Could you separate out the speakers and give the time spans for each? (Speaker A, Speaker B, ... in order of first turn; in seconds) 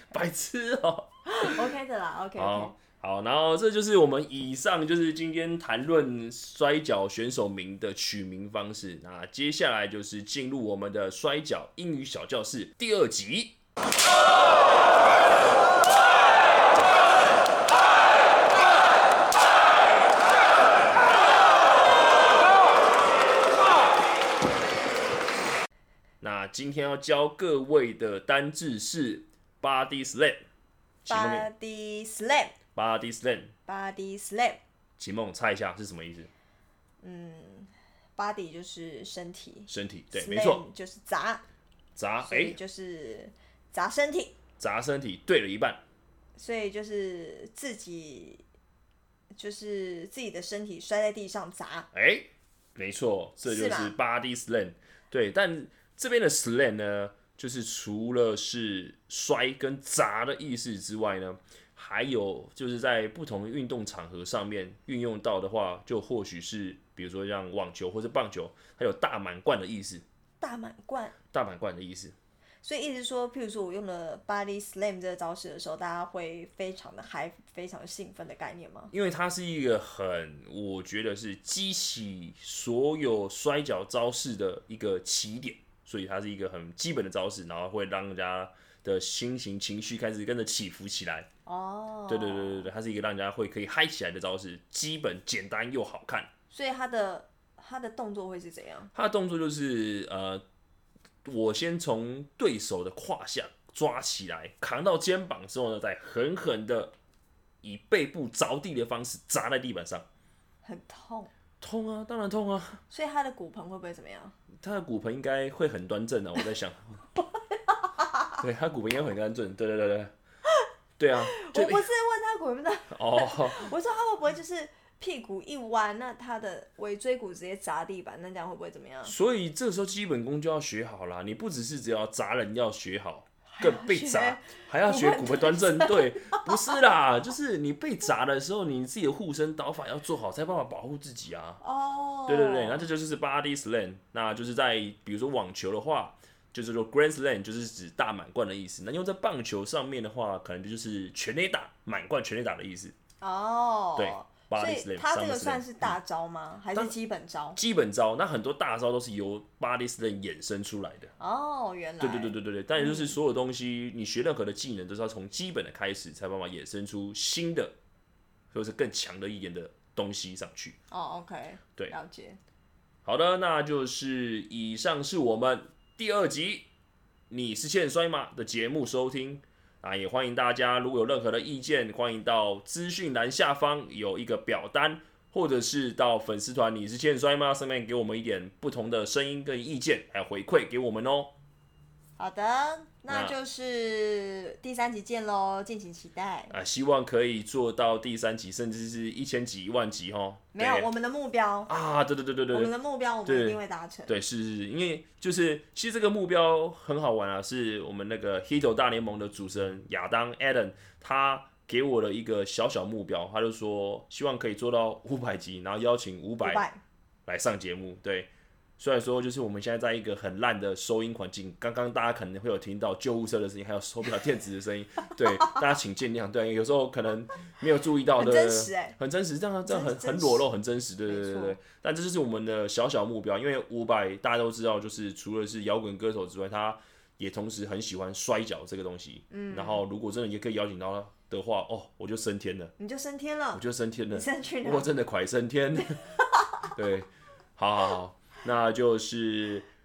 Speaker A: 0.1-1.7, 2.4-13.6, 26.2-30.4, 31.0-31.5, 32.8-33.5, 35.0-36.3, 39.7-40.6, 42.0-42.6, 44.6-45.8, 51.9-70.0, 71.3-72.2, 78.9-91.3, 92.1-96.3, 98.9-100.4, 101.2-106.9, 107.6-110.1, 111.6-112.8, 114.6-117.1, 118.4-120.1, 121.0-121.9, 122.9-123.7, 129.1-141.6, 142.3-152.9, 154.0-155.9, 157.6-161.1, 162.0-167.7, 168.5-170.8, 173.1-176.7, 177.3-191.3, 193.1-193.3, 196.5-200.9, 201.7-202.7, 203.3-216.6, 217.3-242.7, 243.5-246.0, 246.7-249.7
Speaker B: 1.3-2.8, 31.1-32.6, 33.7-34.6, 37.0-41.4, 42.2-44.4, 46.4-48.4, 49.3-51.9, 53.5-53.9, 70.4-71.2, 72.6-78.9, 91.5-92.7, 96.5-98.9, 110.6-111.3, 112.9-114.3, 121.3-129.1, 133.5-136.8, 141.6-142.9, 153.2-157.6, 161.2-163.1, 170.9-172.4, 192.2-196.5, 200.5-201.7, 202.5-204.2, 216.4-216.8, 228.2-229.0, 229.7-230.4, 231.1-231.6, 239.3-239.8, 242.8-244.9, 245.9-246.7